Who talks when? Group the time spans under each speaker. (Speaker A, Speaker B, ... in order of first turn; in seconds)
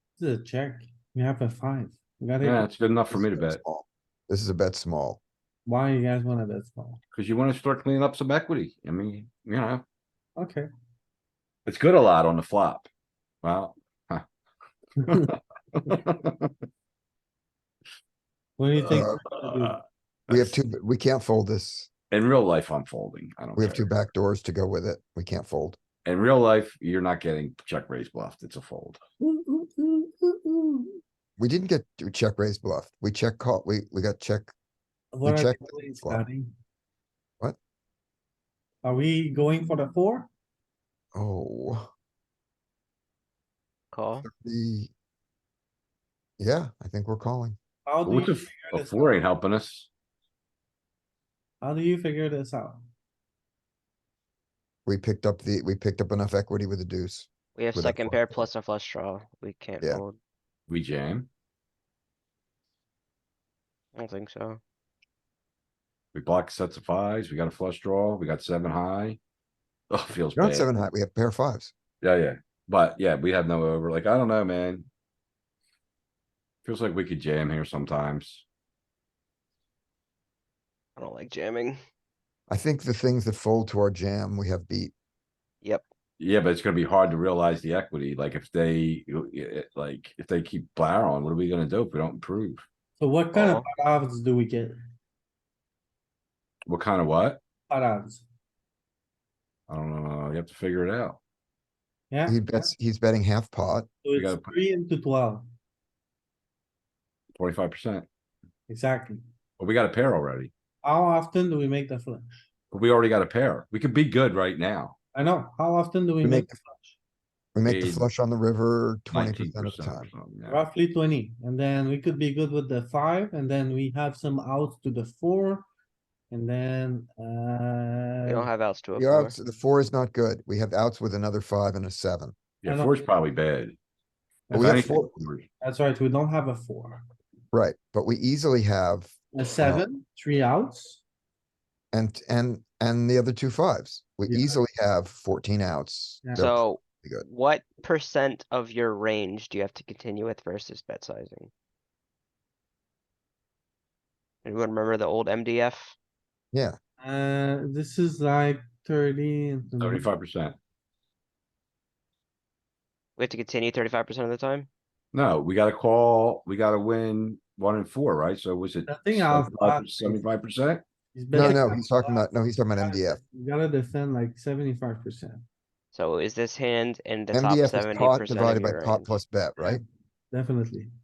Speaker A: 0.2-2.7, 5.6-7.0, 10.4-10.7, 15.0-15.3, 18.6-19.8, 29.2-31.0, 35.1-36.5, 38.8-40.3, 47.9-49.2, 51.6-52.8, 93.0-94.7, 97.7-98.2, 102.1-102.7, 104.0-105.4, 108.7-109.2, 110.8-112.3, 115.1-117.0, 120.5-125.7, 126.3-128.5, 132.7-133.1, 134.5-135.1, 135.6-137.0, 139.3-141.0, 144.2-144.6, 157.0-160.1, 168.9-170.2, 171.1-175.4, 179.6-180.9
Speaker B: 2.4-3.6, 7.1-9.8, 11.7-12.9, 13.4-14.2, 15.1-16.5, 18.8-19.7, 20.3-20.5, 22.1-23.9, 26.0-29.0, 48.0-49.9, 60.7-61.3, 66.1-69.2, 69.9-70.7, 72.0-74.9, 76.6-78.4, 86.2-92.6, 96.7-97.4, 99.7-101.2, 104.1-104.5, 107.3-108.0, 109.6-110.5, 112.7-115.0, 117.6-118.0, 119.1-120.7, 132.6-133.8, 134.5-135.5, 159.8-160.6, 165.1-170.8
Speaker C: 3.1-5.2, 18.9-19.2, 20.3-21.9, 23.6-25.8, 31.4-34.5, 35.2-36.2, 41.1-41.9, 44.2-44.9, 46.4-47.6, 54.9-58.5, 70.3-71.7, 82.5-84.9, 102.3-103.9, 116.2-116.5, 117.5-120.1, 128.9-132.3, 134.5-135.2, 137.5-139.8, 141.9-147.2, 156.5-156.8, 171.3-173.2, 177.3-179.8
Speaker D: 43.9-44.2, 57.5-60.2, 63.9-64.6, 81.0-81.8, 93.3-93.7, 128.2-129.3, 146.3-151.5, 154.4-155.9, 163.2-164.7, 175.9-179.2